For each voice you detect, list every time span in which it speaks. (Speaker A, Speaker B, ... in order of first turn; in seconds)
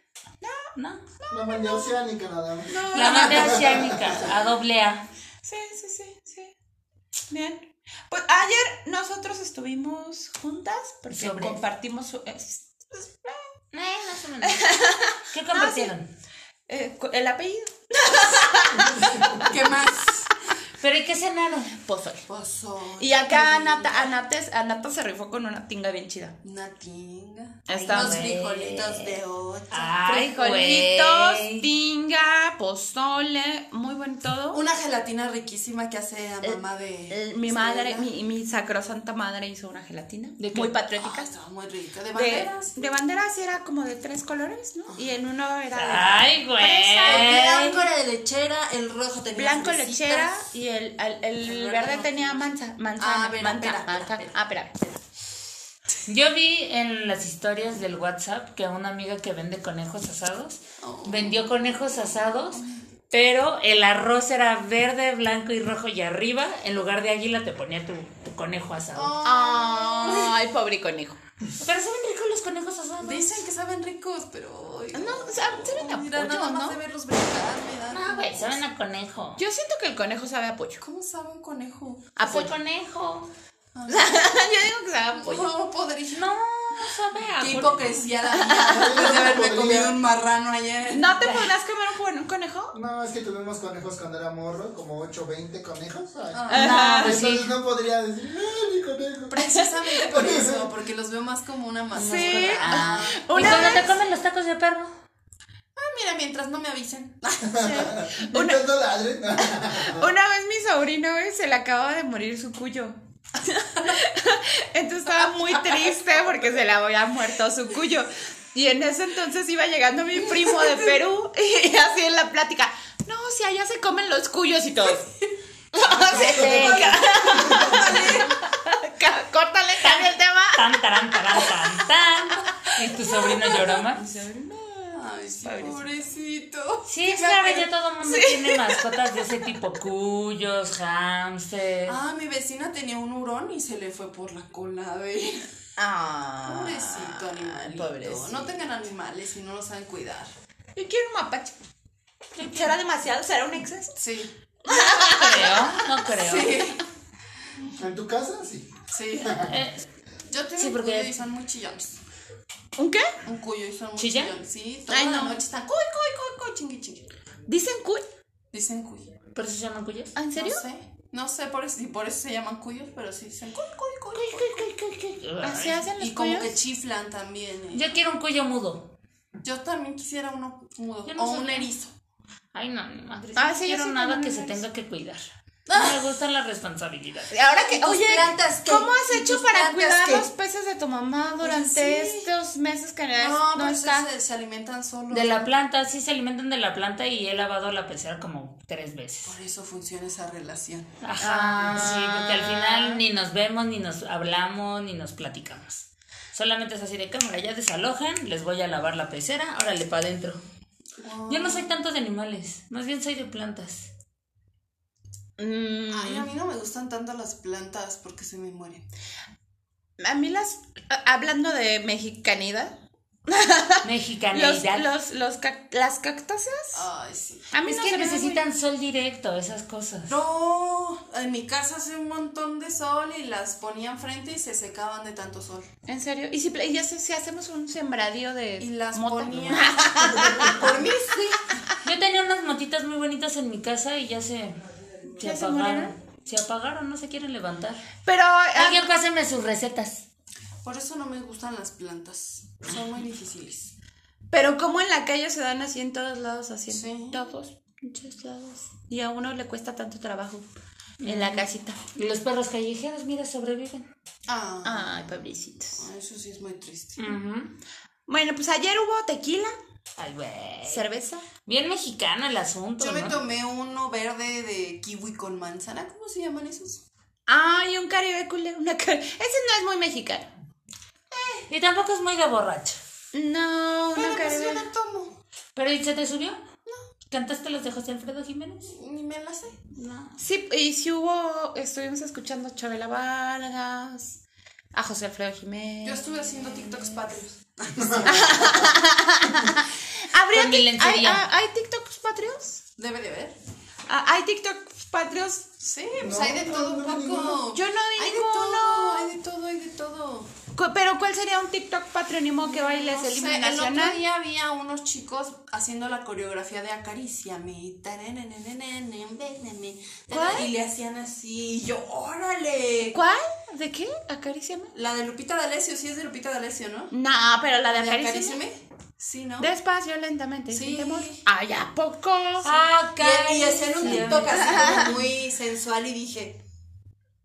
Speaker A: 0.4-1.9, 2.7-3.8, 5.4-6.5, 7.3-13.5, 14.4-15.9, 16.7-19.5, 21.8-22.3, 23.0-26.4, 27.7-28.3, 30.1-34.6, 36.4-41.3, 42.1-47.4, 49.4-55.0, 69.2-71.2, 74.9-76.8, 79.4-80.8, 82.2-82.5, 83.9-85.5, 88.3-89.0, 90.9-92.8, 96.5-97.2, 102.0-103.9, 107.6-108.6, 109.7-125.1, 125.7-130.7, 131.3-131.6, 133.0-135.9, 138.0-138.9, 145.8-148.6, 150.8-151.6, 152.4-154.0, 154.7-155.8, 162.8-163.1, 164.9-165.4, 167.5-168.1, 170.2-170.6, 175.4-176.6, 183.3-184.6, 187.3-194.1, 201.2-203.0, 215.4-216.3, 220.0-222.8, 223.3-226.9, 227.5-228.4, 235.9-240.7, 245.2-245.9, 248.1-248.9, 254.3-260.4, 261.0-261.8, 264.6-265.9, 268.1-269.6, 270.7-271.3, 277.3-280.3, 283.1-284.7, 290.2-294.2, 294.7-296.9, 298.0-302.6, 303.9-305.6, 307.5-309.1, 310.6-314.0, 320.1-320.5, 322.9-324.7, 326.9-328.4, 329.4-332.6, 333.8-335.0
Speaker B: 0.8-1.0, 2.9-5.0, 11.1-11.6, 13.7-14.7, 15.3-16.1, 20.8-21.7, 27.9-29.2, 29.7-31.7, 40.4-40.8, 45.8-47.9, 56.1-69.2, 71.6-73.4, 77.9-79.4, 82.2-83.3, 86.1-88.2, 91.2-91.5, 96.5-97.5, 102.0-104.9, 126.1-127.1, 129.8-134.0, 136.9-142.0, 152.4-152.8, 154.7-156.7, 159.4-159.8, 160.6-161.1, 164.0-164.4, 169.3-170.2, 174.2-175.9, 177.7-178.9, 181.1-181.7, 182.5-187.3, 195.1-199.4, 201.0-210.4, 211.3-213.9, 223.8-224.9, 227.7-230.2, 241.8-244.6, 245.1-247.8, 248.6-250.1, 261.0-263.9, 267.0-267.5, 270.0-270.9, 271.4-273.2, 281.5-282.8, 285.6-286.4, 287.1-288.7, 289.8-290.2, 300.3-301.2, 332.4-334.8
Speaker C: 1.3-4.2, 88.7-90.0, 92.7-99.5, 100.1-100.7, 107.5-110.1, 126.2-126.5, 157.8-158.7, 159.2-159.5, 297.8-298.3, 306.0-307.5
Speaker D: 19.4-20.3, 22.3-24.1, 26.4-30.0, 34.5-38.1, 41.0-42.9, 47.0-50.4, 51.4-54.3, 60.8-62.6, 68.9-70.4, 73.0-78.6, 80.8-82.1, 83.7-84.3, 85.2-86.3, 87.4-91.1, 96.3-96.9, 99.3-104.0, 105.8-108.1, 115.2-115.9, 120.3-120.9, 126.0-128.3, 134.9-137.7, 141.9-145.5, 146.4-150.3, 154.0-154.3, 156.1-156.8, 158.9-159.6, 160.3-162.0, 163.2-167.1, 168.5-169.1, 170.3-174.6, 176.0-177.9, 179.4-181.9, 185.7-185.9, 187.4-190.3, 191.4-192.3, 193.2-195.5, 199.2-200.9, 211.0-211.7, 215.9-218.9, 226.7-227.7, 230.1-235.7, 238.6-241.4, 250.6-253.7, 256.7-257.3, 264.3-265.2, 265.8-267.1, 272.8-276.8, 281.1-281.5, 283.9-285.1, 288.7-289.6, 295.8-298.8, 302.8-303.4, 305.6-310.3, 312.4-323.0, 324.7-326.9, 327.7-329.5, 330.5-331.2, 333.0-336.4